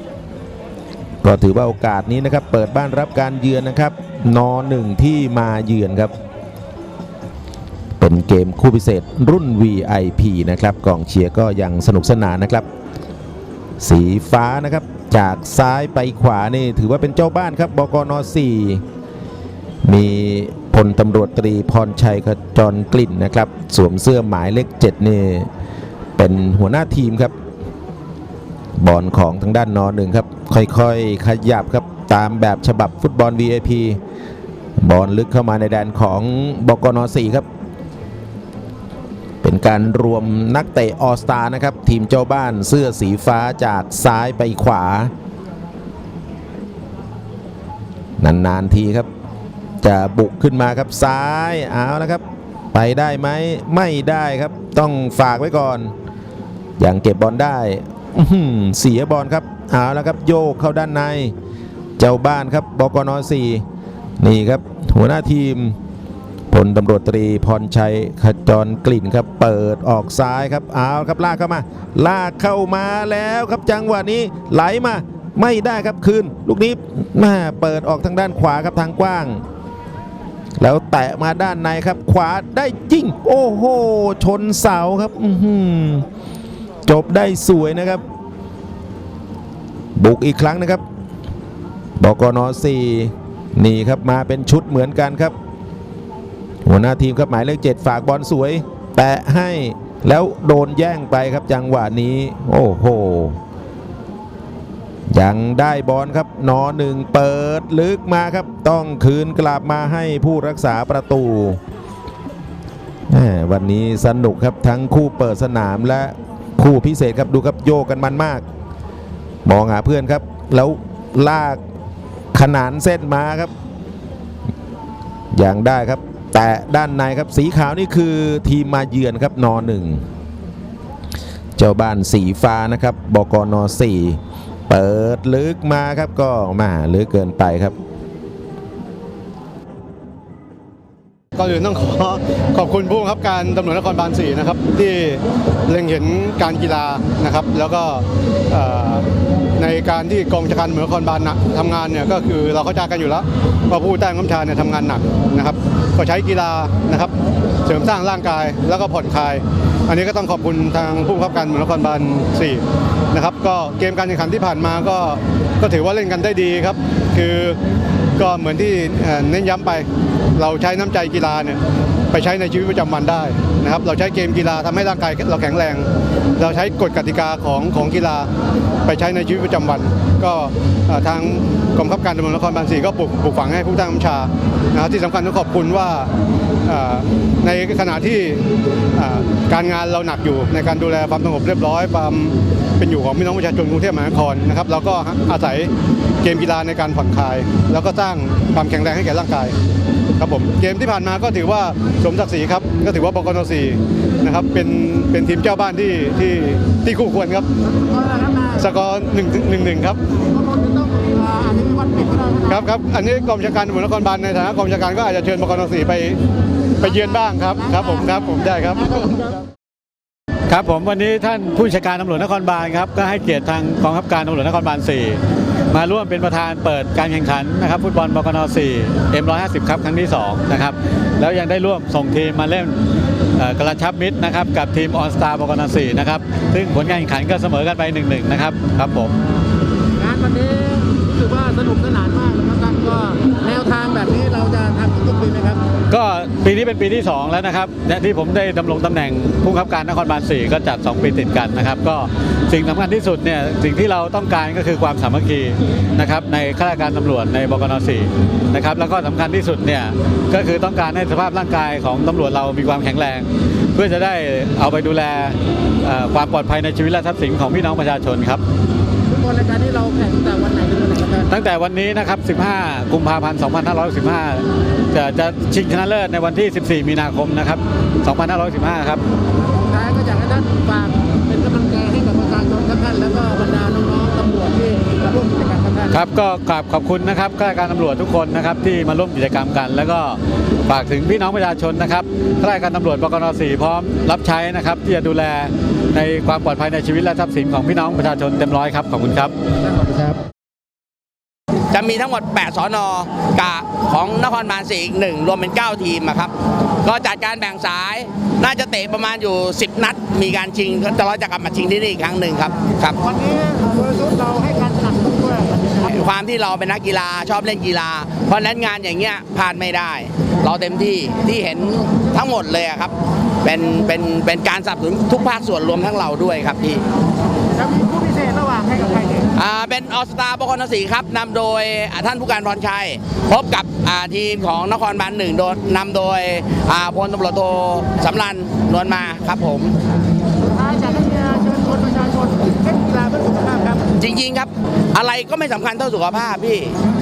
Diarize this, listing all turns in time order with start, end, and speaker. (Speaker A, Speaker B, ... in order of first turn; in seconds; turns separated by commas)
Speaker A: 1.2-6.1, Speaker A: 8.0-12.7, Speaker A: 13.8-18.8, Speaker A: 19.9-25.5, Speaker A: 26.2-27.3, Speaker A: 28.8-34.0, Speaker A: 34.8-37.5, Speaker A: 39.4-45.1, Speaker A: 48.2-49.1, Speaker A: 49.8-55.9, Speaker A: 56.8-61.3, Speaker A: 62.0-63.6, Speaker A: 64.2-65.8, Speaker A: 66.5-79.4, Speaker A: 80.6-86.1, Speaker A: 86.9-88.0, Speaker A: 90.0-90.8, Speaker A: 92.0-95.4, Speaker A: 96.7-103.4, Speaker A: 105.1-111.6, Speaker A: 113.1-118.4, Speaker A: 119.5-121.6, Speaker A: 122.3-123.5, Speaker A: 125.3-130.0, Speaker A: 131.6-137.8, Speaker B: 141.4-149.1, Speaker B: 149.6-157.1, Speaker B: 157.7-167.6, Speaker B: 168.2-171.6, Speaker B: 172.1-178.3, Speaker B: 178.9-186.1, Speaker B: 186.7-188.4, Speaker B: 189.0-195.7, Speaker B: 196.2-199.6, Speaker B: 200.2-207.5, Speaker C: 207.7-208.6, Speaker B: 208.6-210.0, Speaker C: 210.2-212.6, Speaker B: 212.5-216.2, Speaker B: 216.8-219.2, Speaker C: 217.2-217.9, Speaker D: 220.5-232.8, Speaker D: 233.3-239.2, Speaker C: 240.0-245.6, Speaker D: 245.9-268.4, Speaker C: 269.1-271.3, Speaker D: 271.3-279.0, Speaker C: 279.5-285.9, Speaker D: 285.9-299.3, Speaker E: 301.7-313.0, Speaker C: 313.1-315.8, Speaker E: 315.8-326.8, Speaker C: 327.6-329.3, Speaker E: 329.4-339.7, Speaker C: 340.4-343.9, Speaker E: 344.0-346.8